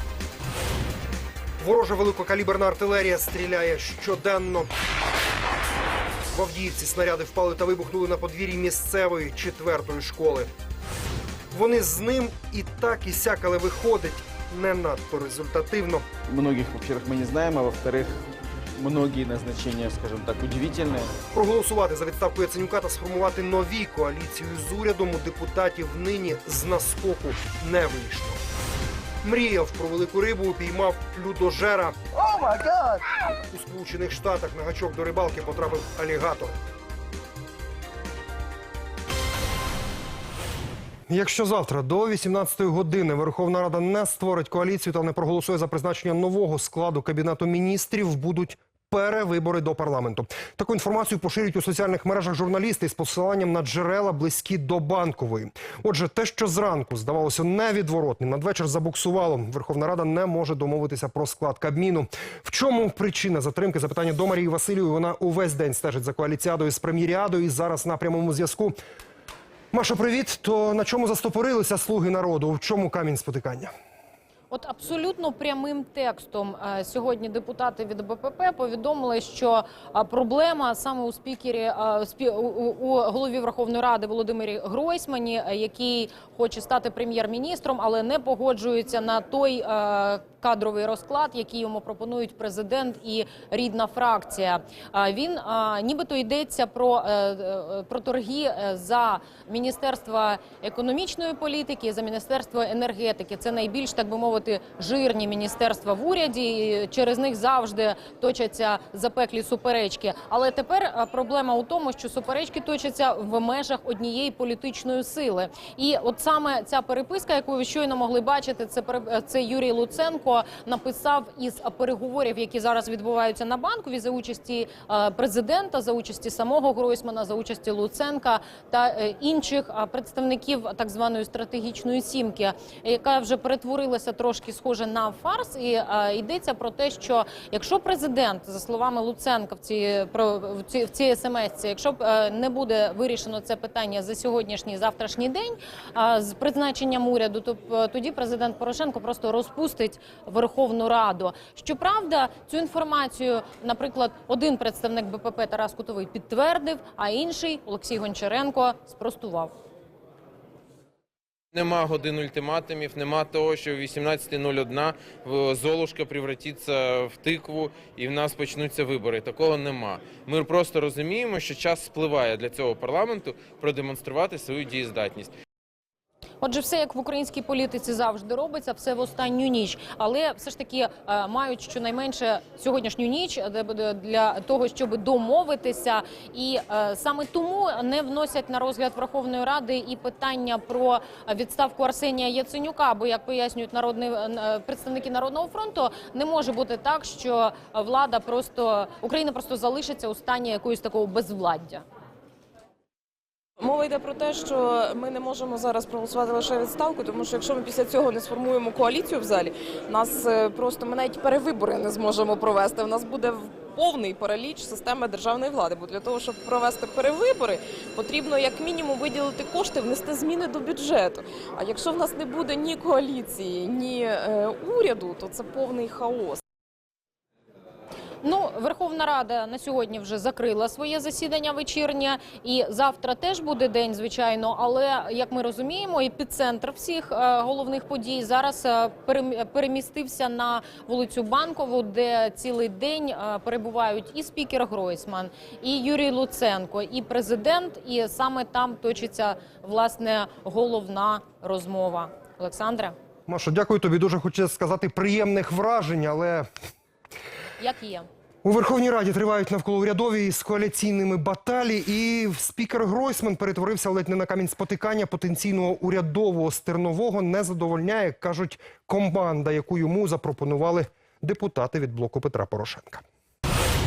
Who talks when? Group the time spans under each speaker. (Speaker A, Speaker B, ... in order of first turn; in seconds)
Speaker A: 1.6-4.7, 6.3-10.5, 11.5-16.1, 21.3-28.4, 29.2-32.0, 33.5-36.6, 41.1-68.8, 69.7-73.7, 253.3-256.5, 258.4-273.0
Speaker B: 16.3-18.2, 18.8-21.1
Speaker C: 74.5-159.5, 176.4-201.8, 228.2-252.9, 257.6-258.1
Speaker D: 161.5-175.3
Speaker E: 203.6-226.4